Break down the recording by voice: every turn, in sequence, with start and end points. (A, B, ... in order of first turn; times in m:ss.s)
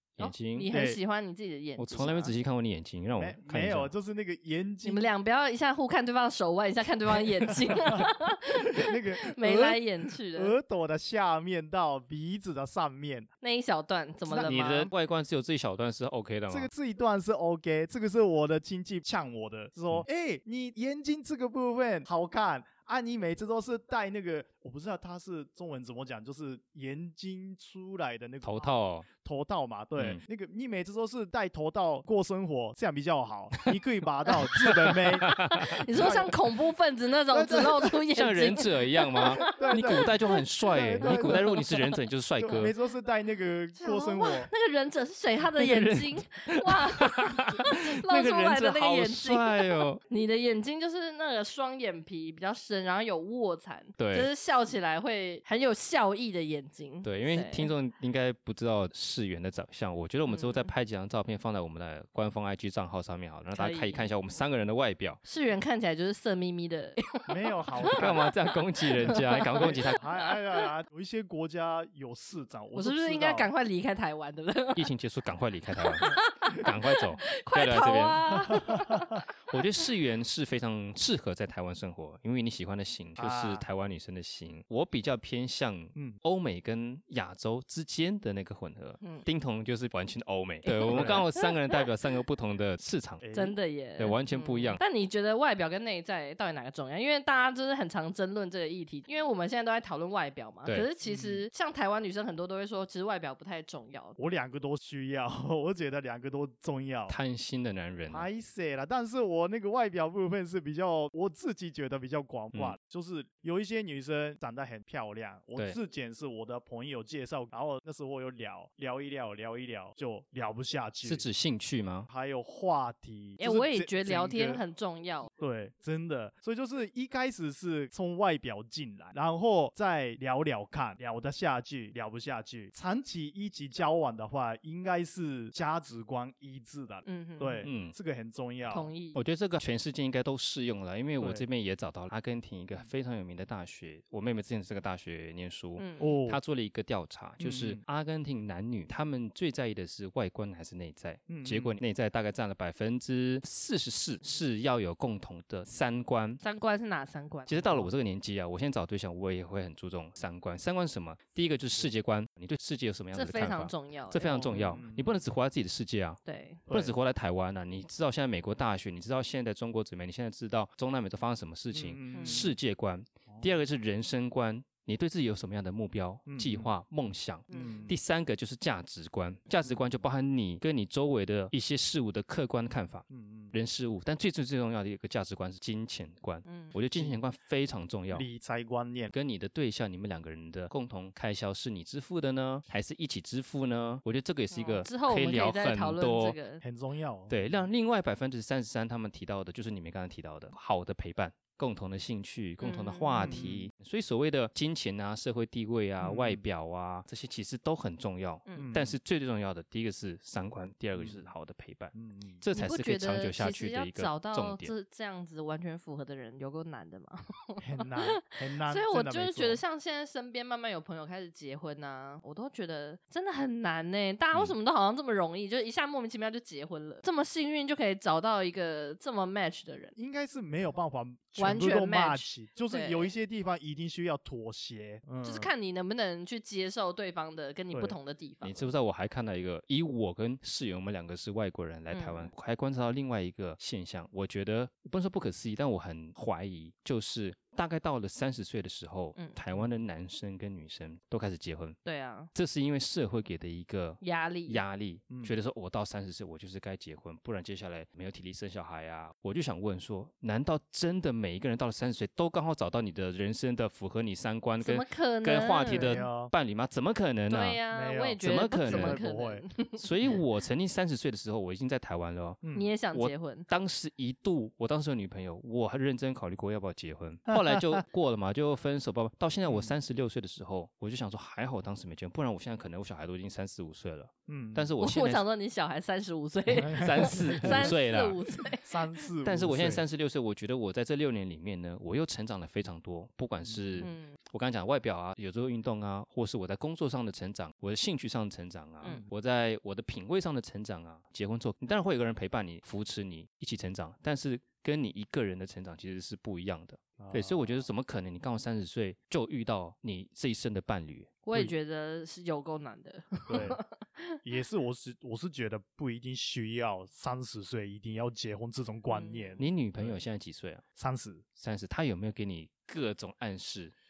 0:00.2-0:00.7 A
0:00.2-0:02.3 B
0:00.7-0:01.0 C
0:01.8-0:03.9 A
0:01.9-0:02.3 C
0:03.2-0:05.1 C
0:04.8-0:10.6 B
0:07.1-0:13.3 C
0:13.4-0:14.9 B
0:14.3-0:16.7 A
0:16.5-0:35.4 C
0:28.4-0:29.1 A
0:30.0-0:30.2 A
0:34.7-0:36.2 A
0:35.1-0:40.4 B
0:35.9-0:36.3 C
0:37.3-0:38.0 C
0:38.1-0:42.7 A
0:39.4-0:40.1 C
0:40.7-0:41.4 C
0:41.0-0:42.0 B
0:42.4-0:44.5 C
0:43.8-0:57.7 B
0:45.4-0:50.0 A
0:54.0-0:54.3 A
0:57.0-1:05.2 A
1:00.3-1:00.7 B
1:03.5-1:04.1 B
1:05.2-1:10.7 B
1:07.3-1:08.2 C
1:08.0-1:10.0 A
1:09.6-1:13.5 C
1:12.8-1:14.9 B
1:14.8-1:18.6 A
1:15.8-1:19.6 B
1:18.5-1:19.2 C
1:19.5-1:33.2 A
1:23.2-1:23.6 C
1:26.0-1:26.2 C
1:29.0-1:29.3 B
1:30.6-1:31.9 B
1:30.9-1:31.2 C
1:33.2-1:33.6 C
1:33.3-1:44.2 B
1:34.0-1:34.8 A
1:41.0-1:41.4 C
1:44.2-1:47.2 C
1:47.1-1:48.3 A
1:48.1-2:01.3 C
2:01.0-2:02.1 A
2:02.1-2:04.6 C
2:03.4-2:05.3 B
2:05.4-2:18.9 C
2:17.0-2:17.7 B
2:17.6-2:18.0 A
2:18.7-2:19.2 B
2:19.1-2:36.4 A
2:21.2-2:21.4 C
2:25.8-2:26.1 B
2:26.0-2:26.4 C
2:27.4-2:27.8 C
2:31.3-2:31.8 C
2:36.4-2:37.8 B
2:37.5-3:08.3 A
2:43.1-2:44.4 B
2:44.2-2:45.2 C
2:46.2-2:46.6 B
2:46.7-2:47.0 C
2:51.7-2:52.5 C
2:52.1-2:52.5 B
2:56.3-2:56.7 C
2:57.5-2:57.9 B
2:57.5-2:57.9 C
3:03.1-3:03.5 C
3:06.5-3:06.8 B
3:08.1-3:09.1 C
3:09.1-3:16.4 A
3:14.5-3:16.6 B
3:16.6-3:17.4 C
3:17.3-3:34.7 A
3:22.6-3:23.5 B
3:23.2-3:23.7 C
3:26.0-3:26.4 C
3:28.5-3:28.7 B
3:28.6-3:29.0 C
3:31.0-3:31.3 C
3:31.9-3:32.4 C
3:32.5-3:50.0 B
3:37.6-3:39.6 C
3:50.0-3:55.5 C
3:51.4-3:53.1 B
3:55.2-3:58.6 B
3:58.4-4:11.8 A
4:01.9-4:02.3 B
4:11.8-4:12.3 B
4:12.3-4:27.6 A
4:14.0-4:14.6 B
4:15.1-4:15.4 C
4:24.6-4:26.1 B
4:25.6-4:26.3 C
4:27.3-4:29.9 B
4:27.7-4:29.4 C
4:28.2-4:29.0 A
4:29.8-4:32.4 A
4:32.4-4:32.7 C
4:32.6-4:33.5 B
4:32.9-4:45.2 A
4:37.3-4:37.8 C
4:39.5-4:39.8 C
4:44.3-4:44.7 C
4:44.8-4:48.7 B
4:46.5-4:47.8 C
4:46.7-4:48.2 A
4:48.6-4:49.8 C
4:49.2-5:11.1 A
4:53.4-4:53.9 C
4:53.8-4:54.2 B
5:07.0-5:07.5 C
5:11.2-5:14.2 B
5:13.3-5:13.6 C
5:14.2-5:20.0 C
5:18.9-5:19.4 B
5:19.4-5:20.6 A
5:20.8-5:21.2 C
5:21.4-5:23.7 A